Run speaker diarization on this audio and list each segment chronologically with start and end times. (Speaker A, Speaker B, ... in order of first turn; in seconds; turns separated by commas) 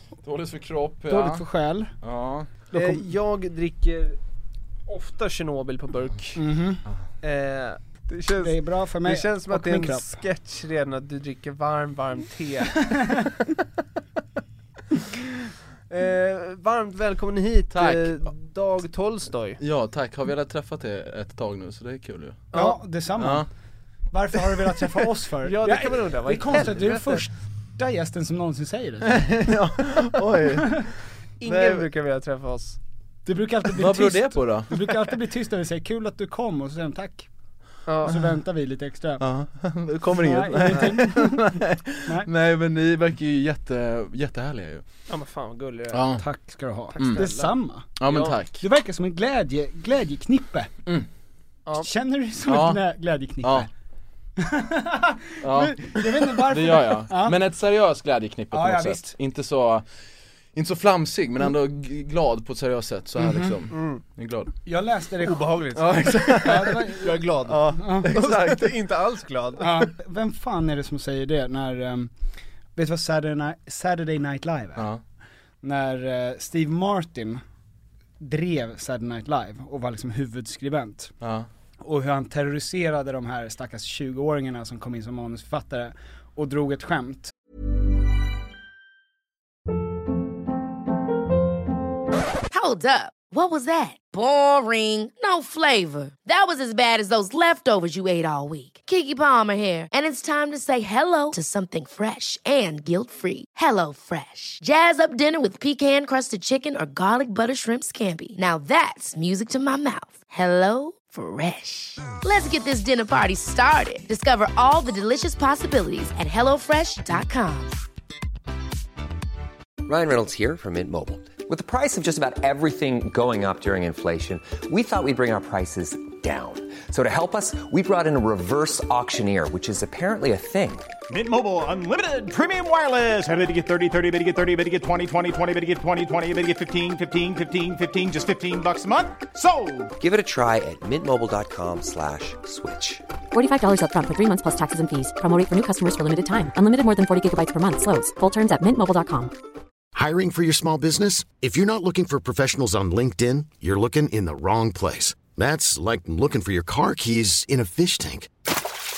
Speaker A: 0.2-1.5, Speaker B: 1.1-1.9, Speaker A: 2.0-2.5, Speaker C: 2.7-4.2, Speaker B: 2.7-3.0, Speaker C: 4.9-6.4, Speaker B: 6.3-6.8, Speaker C: 7.2-13.1, Speaker B: 8.4-10.2, Speaker C: 15.9-19.6, Speaker A: 17.7-18.2, Speaker A: 19.6-22.5, Speaker C: 22.5-22.8, Speaker B: 22.5-23.4, Speaker A: 23.2-23.5, Speaker B: 24.1-29.4, Speaker C: 25.4-27.2, Speaker A: 29.1-30.9, Speaker C: 31.4-32.8, Speaker A: 31.4-31.9, Speaker B: 33.3-37.3, Speaker A: 33.7-34.9, Speaker C: 37.9-38.2, Speaker B: 38.0-39.2, Speaker A: 39.2-44.9, Speaker B: 40.2-42.3, Speaker C: 45.1-46.1, Speaker A: 45.9-46.2, Speaker B: 46.1-47.9, Speaker C: 47.0-47.5, Speaker A: 47.0-47.3, Speaker A: 48.0-48.6, Speaker C: 48.0-48.4, Speaker B: 48.6-50.7, Speaker B: 51.8-53.7, Speaker A: 52.4-52.8, Speaker A: 53.4-53.7, Speaker B: 54.4-57.4, Speaker A: 55.4-59.9, Speaker B: 58.5-59.1, Speaker A: 60.5-64.5, Speaker B: 63.2-63.5, Speaker C: 63.7-64.0, Speaker B: 64.7-65.6, Speaker C: 65.2-69.9, Speaker A: 65.7-68.8, Speaker B: 66.4-68.1, Speaker B: 69.6-72.1, Speaker B: 72.8-74.9, Speaker A: 74.8-75.0, Speaker B: 75.6-77.4, Speaker B: 78.2-81.1, Speaker A: 81.2-81.5, Speaker B: 81.8-87.3, Speaker D: 92.5-117.8, Speaker E: 119.8-130.9, Speaker F: 131.1-139.9, Speaker E: 140.0-143.0, Speaker G: 143.3-149.3, Speaker H: 149.9-158.3